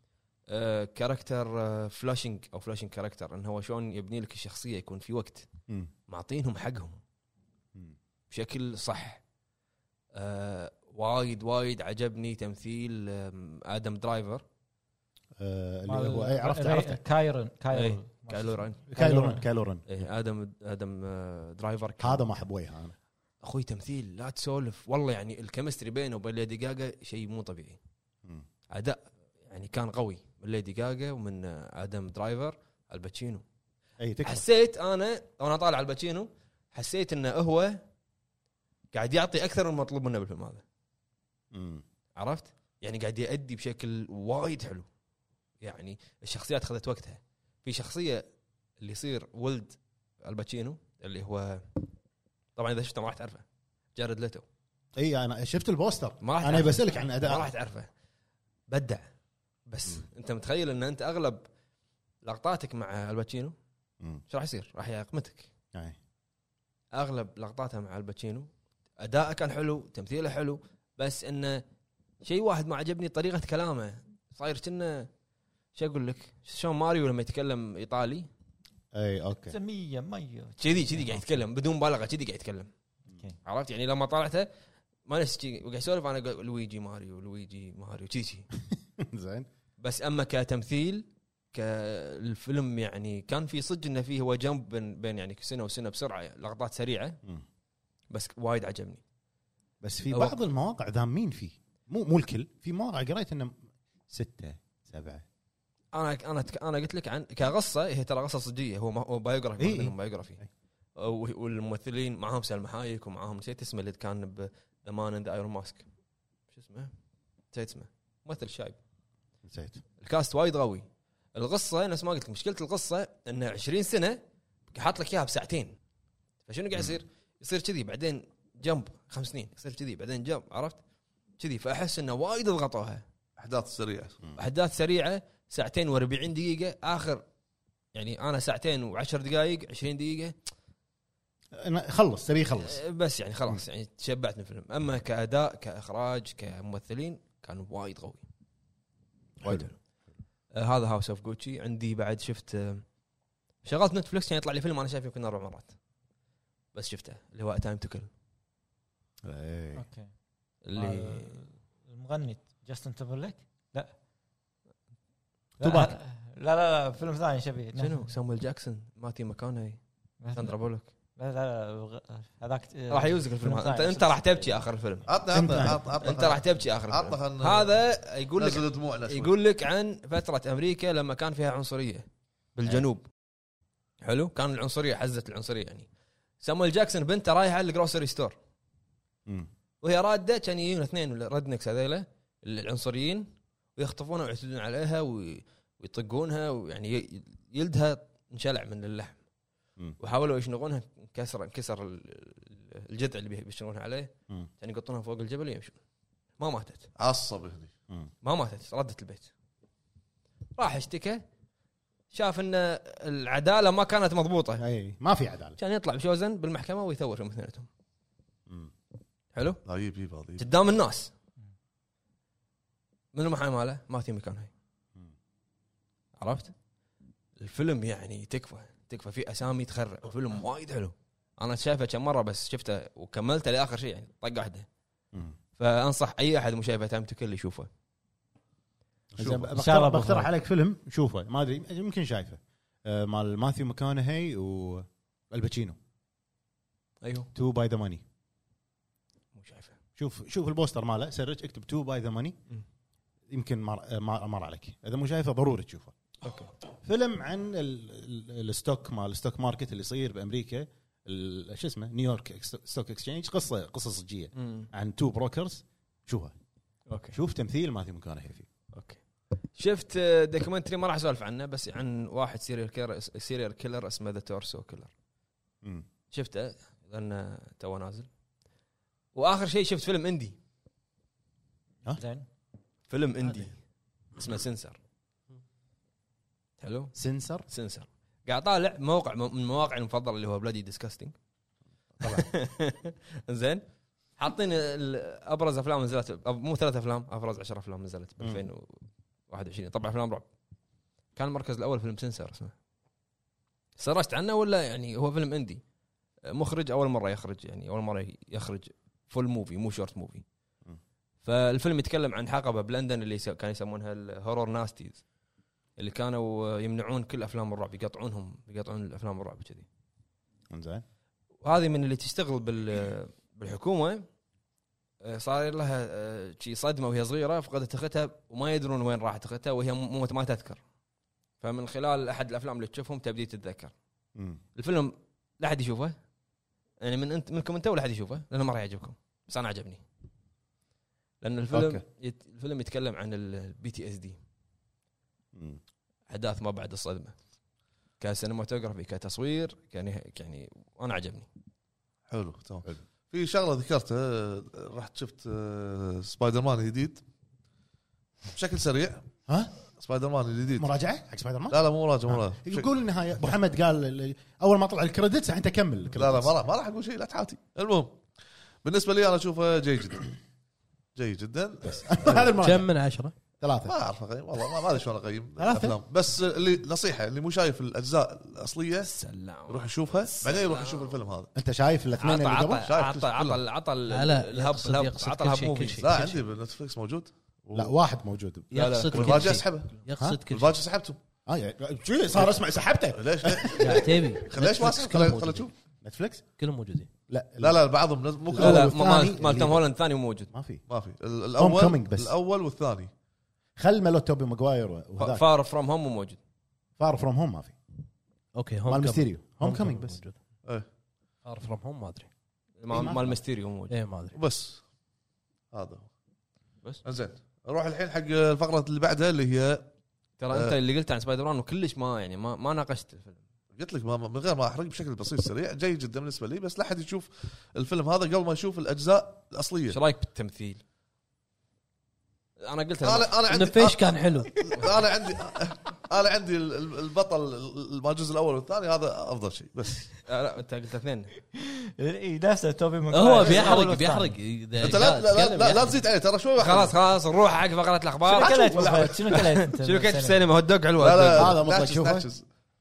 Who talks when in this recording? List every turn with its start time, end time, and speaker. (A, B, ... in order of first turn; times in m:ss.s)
0:00.5-0:05.5 A
0:06.1-0:07.0 A
0:08.3-0:09.2 A
0:10.1-0:14.4 A
0:15.4-0:17.0 B
0:15.9-0:19.5 C
0:17.7-0:18.8 A
0:18.9-0:19.8 B
0:19.9-0:22.2 A
0:22.0-0:23.0 B
0:23.4-0:27.8 A
0:28.7-0:33.4 A
0:34.0-0:34.5 B
0:34.2-0:37.8 A
0:38.9-0:40.6 A
0:41.5-0:41.8 B
0:42.2-0:44.9 A
0:45.6-0:48.2 A
0:48.8-0:51.8 A
0:52.6-0:53.4 A
0:54.0-0:54.4 A
0:55.0-0:57.5 B
0:56.2-0:57.9 A
0:58.7-0:59.0 A
0:59.7-1:01.4 A
1:02.2-1:03.6 A
1:04.3-1:05.5 A
1:06.9-1:11.6 A
1:12.2-1:15.1 A
1:15.8-1:18.3 A
1:18.9-1:19.6 B
1:19.5-1:21.2 C
1:20.6-1:22.7 A
1:23.4-1:24.5 A
1:25.1-1:28.5 A
1:29.0-1:29.5 B
1:29.8-1:37.2 A
1:38.1-1:39.0 A
1:39.8-1:45.2 B
1:45.9-1:50.4 A
1:49.6-1:50.5 B
1:51.0-1:55.8 A
1:56.5-1:56.9 A
1:57.5-1:58.8 A
1:59.5-1:59.8 B
2:00.0-2:04.2 A
2:04.7-2:05.8 A
2:06.5-2:10.8 A
2:11.4-2:13.0 A
2:13.4-2:14.2 D
2:14.4-2:17.2 A
2:17.9-2:20.4 A
2:21.6-2:22.8 B
2:22.6-2:28.2 A
2:29.4-2:29.7 B
2:29.4-2:29.8 A
2:30.5-2:32.8 A
2:33.6-2:35.7 A
2:36.7-2:38.1 A
2:39.2-2:39.8 B
2:39.8-2:40.1 C
2:40.6-2:41.3 A
2:40.8-2:43.9 C
2:45.6-2:46.0 B
2:45.6-2:48.1 C
2:47.8-2:49.8 A
2:50.2-2:54.6 C
2:50.3-2:50.9 A
2:52.9-2:55.1 A
2:55.1-2:57.8 D
2:55.3-2:55.8 B
2:56.0-3:03.1 A
2:58.4-2:59.3 D
3:04.0-3:05.9 A
3:06.4-3:08.4 A
3:09.8-3:19.2 A
3:20.0-3:25.8 A
3:26.4-3:26.9 A
3:27.0-3:27.7 D
3:28.2-3:29.3 A
3:30.6-3:31.2 A
3:32.1-3:34.6 A
3:34.6-3:35.6 B
3:35.6-3:37.7 A
3:39.3-3:39.6 A
3:39.6-3:40.5 D
3:40.4-3:41.1 A
3:43.1-3:44.5 A
3:46.2-3:46.5 A
3:47.4-3:54.7 A
3:55.6-3:57.7 A
3:59.2-3:59.5 D
3:59.2-4:05.8 B
3:59.6-4:00.3 C
4:07.0-4:07.3 A
4:07.4-4:08.0 B
4:09.4-4:09.8 A
4:10.0-4:12.4 B
4:13.3-4:15.9 B
4:16.2-4:16.5 A
4:16.8-4:26.3 B
4:24.4-4:24.7 A
4:26.9-4:27.2 A
4:27.1-4:28.5 B
4:28.7-4:29.0 A
4:29.5-4:34.9 A
4:36.1-4:38.1 A
4:39.1-4:40.4 A
4:41.9-4:42.3 C
4:42.9-4:43.6 A
4:44.2-4:44.8 A
4:46.6-4:46.9 A
4:47.0-4:47.4 B
4:47.5-4:51.2 A
4:52.0-4:52.3 B
4:52.0-4:53.6 A
4:54.2-5:00.3 A
4:58.2-4:58.4 B
5:01.2-5:02.5 A
5:03.8-5:05.6 A
5:06.3-5:10.2 A
5:11.2-5:15.0 A
5:15.8-5:19.7 A
5:20.5-5:20.8 B
5:21.4-5:24.1 A
5:25.0-5:30.6 A
5:31.4-5:33.7 A
5:34.2-5:34.4 B
5:34.6-5:36.0 A
5:36.8-5:39.8 A
5:41.2-5:44.2 A
5:41.5-5:41.8 B
5:45.4-5:45.6 B
5:46.1-5:47.2 A
5:48.0-5:51.3 A
5:52.1-5:57.0 D
5:58.3-5:59.1 D
5:59.8-6:00.7 D
6:00.6-6:06.3 B
6:01.5-6:02.7 D
6:05.9-6:08.0 D
6:08.6-6:10.2 D
6:11.0-6:12.3 D
6:11.6-6:12.7 B
6:12.2-6:13.1 E
6:13.4-6:13.7 B
6:13.6-6:18.9 D
6:15.4-6:15.8 B
6:18.8-6:21.0 A
6:19.5-6:21.3 D
6:21.4-6:22.7 B
6:22.0-6:26.1 A
6:22.6-6:23.4 D
6:23.9-6:26.2 E
6:25.8-6:27.8 D
6:27.5-6:28.5 B
6:28.5-6:30.6 E
6:28.5-6:29.4 A
6:28.9-6:31.0 D
6:31.3-6:33.9 B
6:32.9-6:35.5 D
6:33.6-6:35.5 E
6:35.8-6:36.2 B
6:36.4-6:36.9 E
6:37.1-6:37.6 B
6:37.4-6:38.8 D
6:38.3-6:39.6 B
6:38.4-6:40.3 A
6:40.3-6:40.6 B
6:40.7-6:42.9 D
6:41.4-6:42.1 B
6:43.6-6:45.2 B
6:45.0-6:46.2 A
6:46.8-6:47.6 B
6:48.4-6:50.2 E
6:48.7-6:50.0 B
6:51.2-6:52.1 E
6:52.6-6:53.8 A
6:52.7-6:53.2 B
6:53.7-6:54.2 E
6:54.1-6:54.6 D
6:55.5-6:55.9 D
6:56.8-6:59.7 D
7:00.2-7:03.2 A
7:00.3-7:00.6 D
7:03.6-7:09.8 D
7:09.7-7:10.6 A
7:12.4-7:13.2 A
7:12.8-7:19.9 D
7:13.3-7:14.3 E
7:20.0-7:21.1 A
7:21.4-7:24.1 C
7:22.9-7:25.8 E
7:24.6-7:26.8 D
7:26.4-7:31.4 A
7:28.1-7:30.2 C
7:28.2-7:29.2 D
7:30.8-7:32.3 D
7:31.1-7:32.1 B